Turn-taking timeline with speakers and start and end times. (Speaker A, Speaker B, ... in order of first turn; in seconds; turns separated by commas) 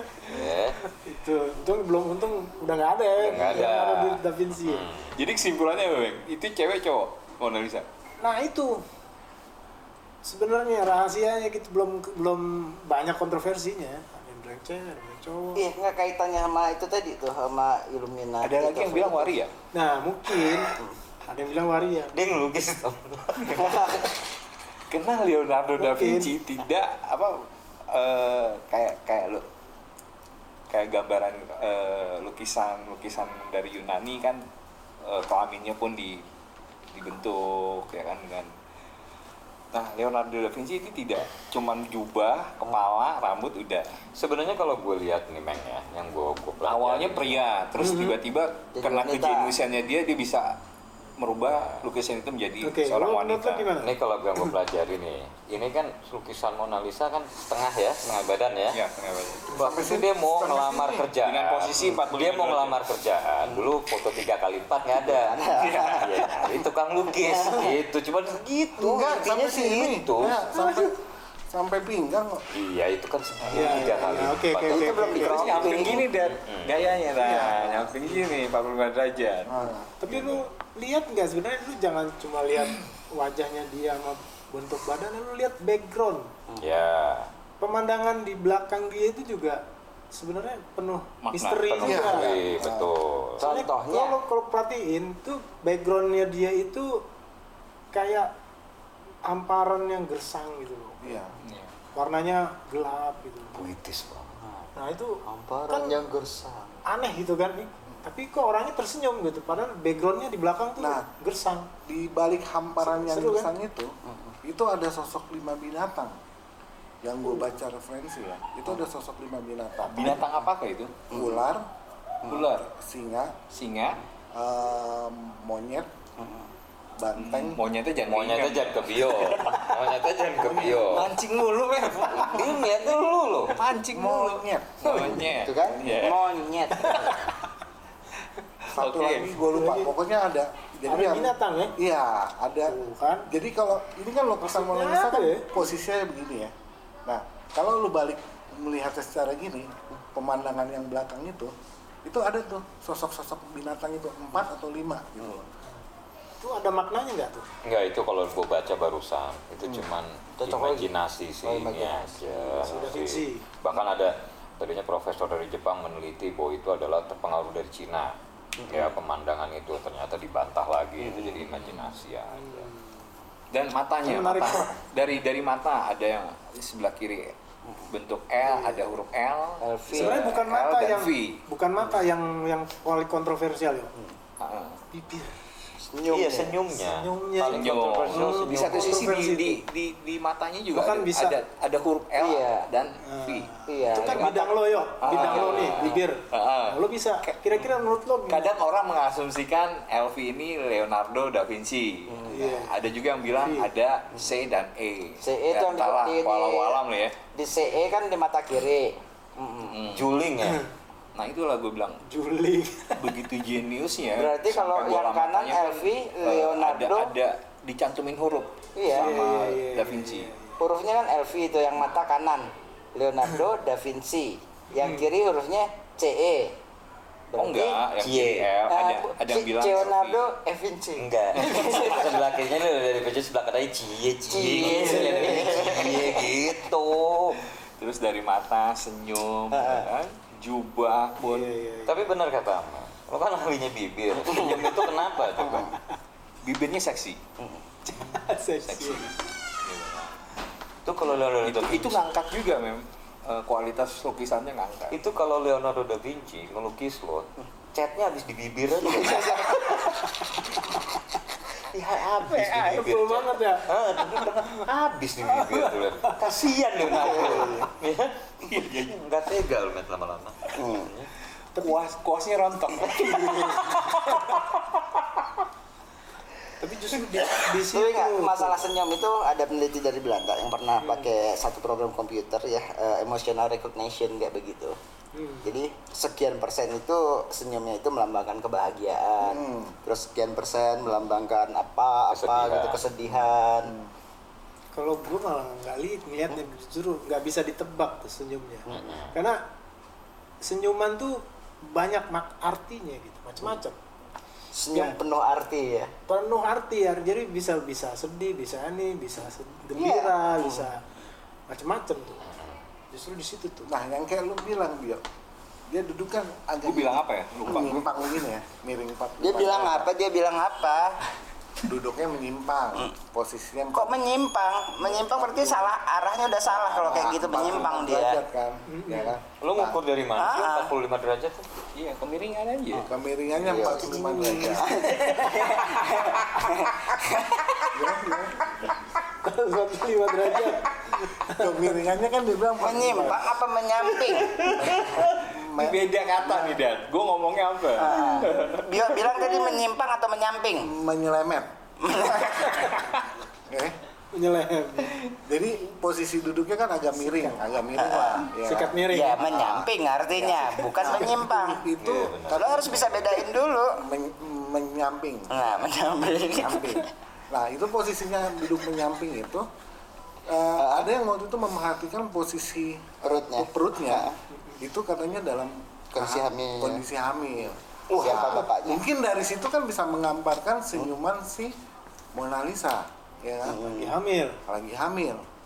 Speaker A: 0.2-0.8, Speaker B: 0.9-4.9, Speaker A: 3.1-5.2, Speaker C: 5.1-7.8, Speaker B: 8.2-8.8, Speaker B: 10.2-15.6, Speaker D: 15.5-19.4, Speaker C: 18.4-19.5, Speaker B: 19.7-20.7, Speaker B: 21.3-22.2, Speaker A: 22.1-24.1, Speaker D: 23.5-24.1, Speaker C: 24.9-29.4, Speaker B: 25.8-26.3, Speaker C: 30.7-34.4, Speaker C: 35.0-36.2, Speaker C: 36.9-38.5, Speaker C: 39.7-43.9, Speaker A: 44.1-47.5, Speaker C: 46.6-50.6, Speaker B: 47.8-48.1, Speaker D: 48.7-49.5, Speaker C: 51.2-53.7, Speaker B: 52.6-54.5, Speaker A: 53.8-58.8, Speaker C: 58.7-59.5, Speaker A: 59.5-70.5, Speaker E: 59.5-61.1, Speaker C: 61.2-62.8, Speaker D: 65.0-66.1, Speaker C: 65.5-66.5, Speaker D: 67.2-67.8, Speaker E: 68.8-72.4, Speaker B: 70.5-70.9, Speaker A: 72.5-75.3, Speaker B: 73.5-75.6, Speaker D: 74.7-76.2, Speaker C: 75.1-79.6, Speaker A: 76.3-77.3, Speaker B: 77.2-77.7, Speaker E: 79.4-79.9, Speaker B: 80.0-86.3, Speaker A: 80.1-80.4, Speaker C: 82.6-82.8, Speaker A: 86.6-87.3, Speaker B: 87.6-92.4, Speaker C: 91.2-92.1, Speaker A: 91.7-93.5, Speaker E: 91.8-92.9, Speaker D: 93.4-94.2, Speaker B: 93.4-97.0, Speaker B: 97.9-98.3, Speaker B: 99.2-101.2, Speaker E: 101.0-101.3, Speaker C: 101.4-101.7, Speaker B: 101.9-103.6, Speaker A: 103.5-104.4, Speaker D: 104.4-104.7, Speaker B: 104.8-106.0, Speaker D: 105.2-106.8, Speaker B: 106.8-111.7, Speaker E: 110.8-111.0, Speaker E: 111.8-116.2, Speaker B: 112.8-113.5, Speaker D: 114.0-114.3, Speaker E: 117.0-120.2, Speaker C: 119.9-120.9, Speaker D: 121.1-121.4, Speaker E: 121.1-121.7, Speaker C: 122.3-122.7, Speaker E: 122.7-123.3, Speaker C: 123.5-124.0, Speaker E: 124.3-125.9, Speaker D: 126.2-126.5, Speaker E: 127.0-127.6, Speaker C: 127.2-129.8, Speaker A: 128.0-131.2, Speaker C: 130.7-132.6, Speaker A: 132.2-133.6, Speaker C: 133.4-137.1, Speaker E: 133.9-135.0, Speaker D: 134.8-137.3, Speaker B: 136.8-137.2, Speaker C: 138.6-139.3, Speaker E: 138.7-146.5, Speaker B: 139.4-139.9, Speaker B: 140.9-141.7, Speaker B: 142.7-143.3, Speaker B: 144.4-145.5, Speaker E: 147.1-151.5, Speaker E: 152.0-155.5, Speaker B: 156.4-157.5, Speaker A: 157.6-168.1, Speaker D: 160.4-160.9, Speaker D: 161.4-162.8, Speaker B: 162.6-163.4, Speaker D: 168.6-168.9, Speaker A: 168.7-172.7, Speaker D: 171.0-171.5, Speaker B: 172.4-172.7, Speaker C: 173.5-177.3, Speaker B: 174.0-174.8, Speaker D: 177.7-177.9, Speaker C: 177.9-181.4, Speaker D: 179.6-180.3, Speaker B: 179.9-183.9, Speaker C: 184.4-184.8, Speaker B: 184.9-185.3, Speaker D: 185.8-186.6, Speaker A: 186.1-189.2, Speaker B: 186.9-189.6, Speaker C: 187.5-194.4, Speaker B: 190.7-191.3, Speaker D: 192.2-192.7, Speaker B: 193.0-198.5, Speaker D: 193.7-196.0, Speaker C: 195.0-197.7, Speaker C: 198.3-207.2, Speaker D: 202.1-202.5, Speaker B: 202.3-202.8, Speaker B: 203.4-203.7, Speaker D: 205.2-206.8, Speaker D: 207.3-209.8, Speaker C: 209.7-210.1, Speaker A: 209.9-210.7, Speaker C: 211.1-212.0, Speaker B: 212.1-213.1, Speaker C: 213.0-220.3, Speaker D: 214.1-217.1, Speaker D: 218.8-219.2, Speaker B: 218.9-220.6, Speaker D: 220.6-226.6, Speaker B: 224.8-225.1, Speaker D: 227.3-227.8, Speaker C: 227.3-230.3, Speaker A: 228.0-228.5, Speaker D: 228.6-232.2, Speaker A: 230.9-237.4, Speaker C: 231.3-232.0, Speaker D: 234.3-236.4, Speaker B: 234.8-235.4, Speaker C: 237.8-241.6, Speaker D: 239.5-239.9, Speaker B: 241.2-242.0, Speaker A: 241.8-245.7, Speaker D: 244.2-244.7, Speaker D: 245.4-245.7, Speaker C: 246.4-247.2, Speaker B: 247.8-249.1, Speaker C: 248.6-250.2, Speaker A: 250.8-252.0, Speaker C: 251.4-255.0, Speaker A: 254.9-259.8, Speaker D: 258.8-260.0, Speaker A: 261.7-271.1, Speaker C: 262.1-263.0, Speaker B: 262.6-264.6, Speaker D: 267.0-267.7, Speaker C: 268.5-268.9, Speaker D: 270.6-270.9, Speaker B: 271.6-271.8, Speaker C: 271.6-274.6, Speaker B: 273.1-274.3, Speaker B: 276.6-278.6, Speaker D: 277.1-284.8, Speaker B: 280.8-281.1, Speaker B: 285.1-285.5, Speaker D: 285.4-293.7, Speaker E: 289.2-289.8, Speaker A: 292.1-292.8, Speaker E: 293.6-293.9, Speaker B: 294.7-299.4, Speaker D: 298.7-298.9, Speaker A: 298.7-299.1, Speaker B: 300.4-303.8, Speaker D: 304.5-305.9, Speaker B: 306.1-310.8, Speaker D: 309.7-310.7, Speaker B: 311.5-312.2, Speaker A: 312.2-312.6, Speaker B: 312.9-313.7, Speaker E: 313.6-315.0, Speaker E: 315.7-319.9, Speaker C: 316.6-317.9, Speaker D: 317.5-317.8, Speaker D: 319.2-321.0, Speaker E: 321.6-324.0, Speaker D: 323.7-328.2, Speaker E: 324.8-325.7, Speaker E: 326.6-329.8, Speaker B: 328.7-329.1, Speaker A: 329.4-331.5, Speaker D: 330.1-330.7, Speaker C: 331.7-332.9, Speaker D: 332.7-337.8, Speaker E: 332.9-334.9, Speaker B: 333.8-335.3, Speaker E: 337.7-338.4, Speaker B: 339.2-341.8, Speaker E: 341.3-343.3, Speaker D: 342.6-344.5, Speaker C: 344.1-349.5, Speaker B: 344.4-344.8, Speaker E: 345.1-346.5, Speaker D: 347.8-350.7, Speaker E: 350.6-351.5, Speaker D: 351.8-352.8, Speaker E: 353.5-353.8, Speaker B: 354.1-355.0, Speaker E: 355.2-363.0, Speaker B: 357.1-357.4, Speaker D: 357.8-358.3, Speaker B: 358.4-359.2, Speaker D: 358.9-361.7, Speaker A: 361.8-363.2, Speaker D: 362.3-363.8, Speaker E: 363.7-365.6, Speaker D: 365.3-366.9, Speaker E: 366.3-369.5, Speaker E: 370.3-381.5, Speaker D: 370.6-370.9, Speaker D: 373.0-374.2, Speaker D: 375.9-376.8, Speaker D: 377.9-378.8, Speaker E: 382.1-383.7, Speaker D: 383.4-384.0, Speaker B: 383.7-384.4, Speaker E: 384.4-385.2